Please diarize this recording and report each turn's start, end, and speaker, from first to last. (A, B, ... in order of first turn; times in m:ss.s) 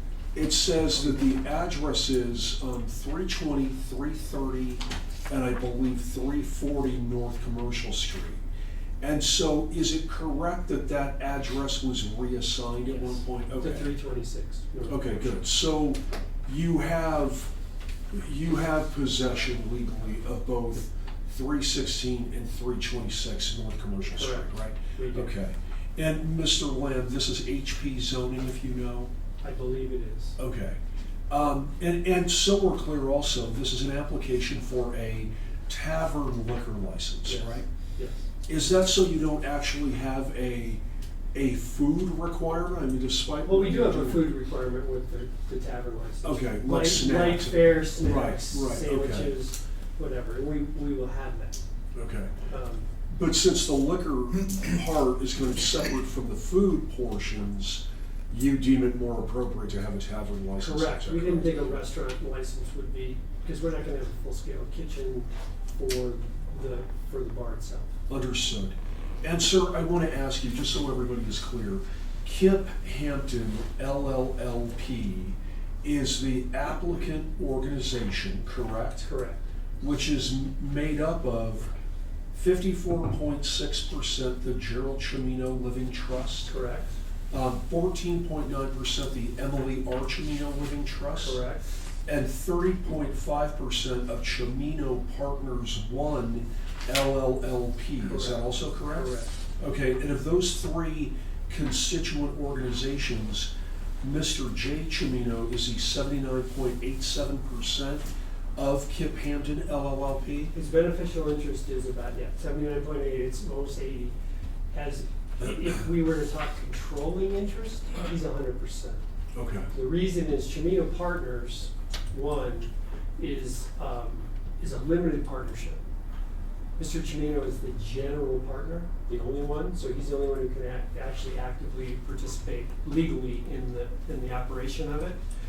0:00.3-0:08.4 A
0:09.0-0:13.9 A
0:12.8-0:15.3 B
0:14.9-0:17.5 A
0:18.1-0:29.1 A
0:24.2-0:25.3 B
0:29.4-0:30.4 B
0:30.4-0:37.6 A
0:37.2-0:38.2 B
0:38.5-0:40.8 A
0:41.3-0:44.3 A
0:43.4-0:51.6 B
0:46.2-0:49.3 A
0:51.9-0:52.3 A
0:52.5-0:52.9 B
0:53.1-1:01.8 A
1:00.6-1:07.9 B
1:08.1-1:19.1 A
1:19.0-1:19.4 B
1:19.8-1:21.7 A
1:22.3-1:26.5 A
1:26.5-1:26.9 B
1:27.3-1:31.4 A
1:31.2-1:31.6 B
1:32.0-1:43.5 A
1:38.0-1:39.3 B
1:44.0-1:50.5 A
1:50.5-1:54.1 B
1:54.7-1:59.0 B
1:59.3-1:59.7 A
1:59.7-2:05.8 B
2:06.8-2:15.2 B